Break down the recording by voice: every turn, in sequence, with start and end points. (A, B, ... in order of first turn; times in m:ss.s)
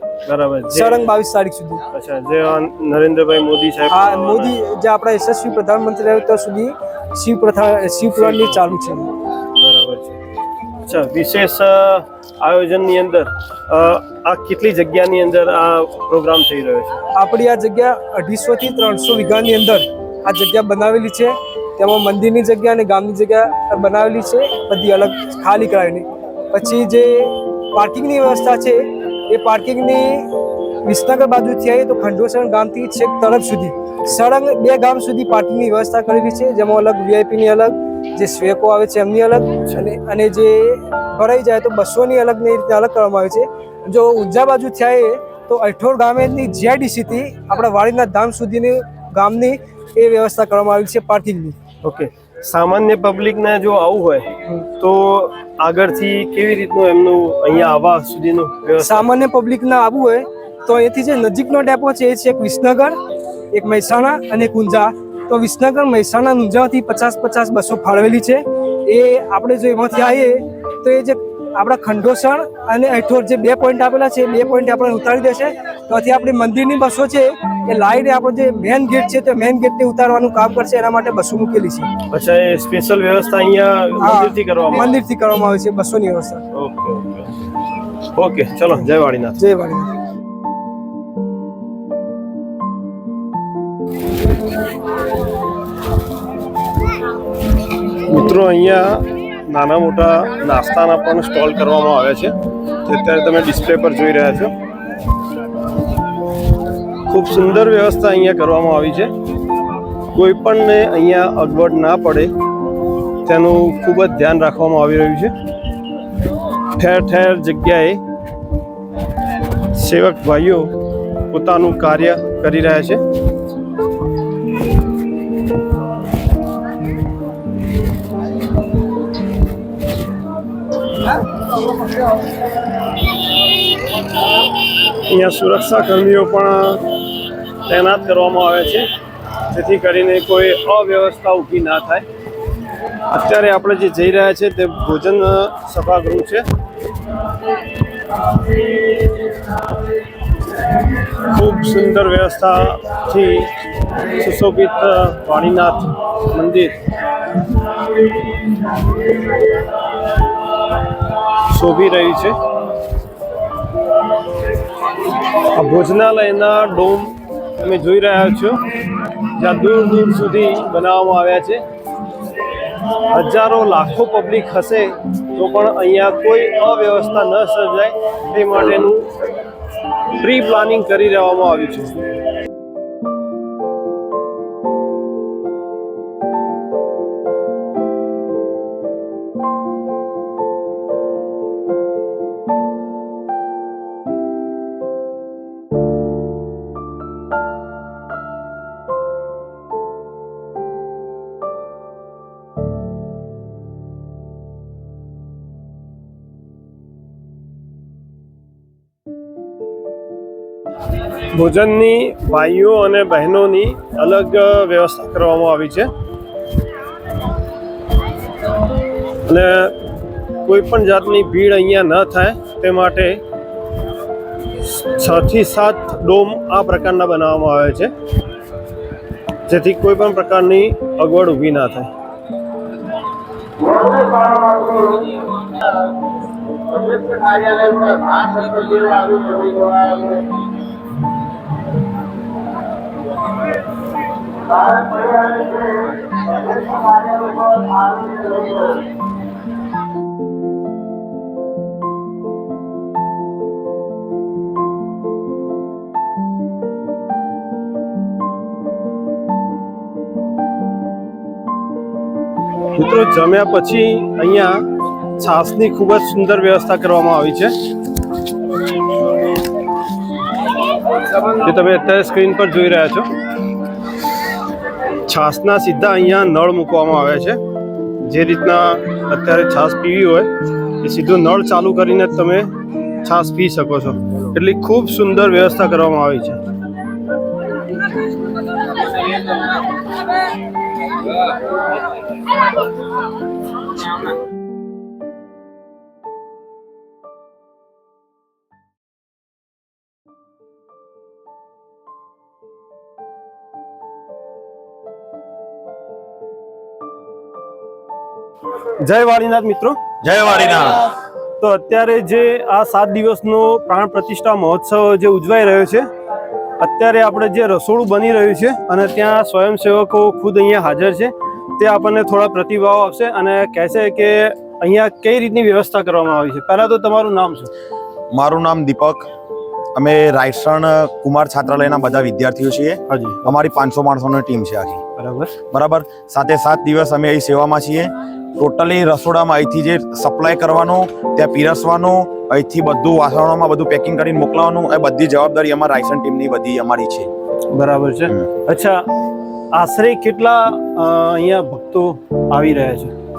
0:00.2-0:01.1 A
0:00.7-0:01.8 B
0:01.9-0:04.5 A
0:03.9-0:09.1 B
0:08.1-0:08.6 A
0:09.5-0:10.2 A
0:10.8-0:16.9 A
0:17.1-0:30.3 B
0:30.8-0:51.6 B
0:51.8-0:59.1 A
0:58.8-1:03.0 B
1:03.5-1:21.9 B
1:22.1-1:25.0 A
1:24.0-1:26.4 B
1:26.5-1:27.4 A
1:28.0-1:29.4 A
1:29.4-1:29.9 B
1:37.9-1:44.5 A
1:47.0-1:49.1 A
1:50.1-1:52.3 A
1:53.2-1:55.3 A
1:56.7-1:58.0 A
1:59.7-2:00.7 A
2:01.3-2:03.0 A
2:14.8-2:17.0 A
2:17.6-2:18.8 A
2:19.4-2:22.1 A
2:23.0-2:26.4 A
2:31.0-2:36.7 A
2:41.3-2:42.4 A
2:45.2-2:48.6 A
2:49.2-2:51.6 A
2:52.9-2:59.1 A
3:00.1-3:02.0 A
3:31.2-3:35.9 A
3:39.2-3:39.8 A
3:40.4-3:43.2 A
3:44.5-3:47.9 A
3:49.4-3:51.9 A
3:54.2-3:54.8 A
3:56.8-4:00.1 A
4:22.7-4:24.6 A
4:25.2-4:27.5 A
4:31.1-4:33.1 A
4:35.0-4:37.4 A
4:38.0-4:46.4 A
5:08.8-5:09.8 A
5:10.0-5:10.9 C
5:11.4-5:15.9 A
5:16.6-5:27.5 A
5:28.1-5:29.1 C
5:29.7-5:34.8 C
5:32.9-5:33.3 A
5:35.0-5:35.3 A
5:35.5-5:47.1 C
5:47.5-5:48.8 A
5:49.5-5:52.9 A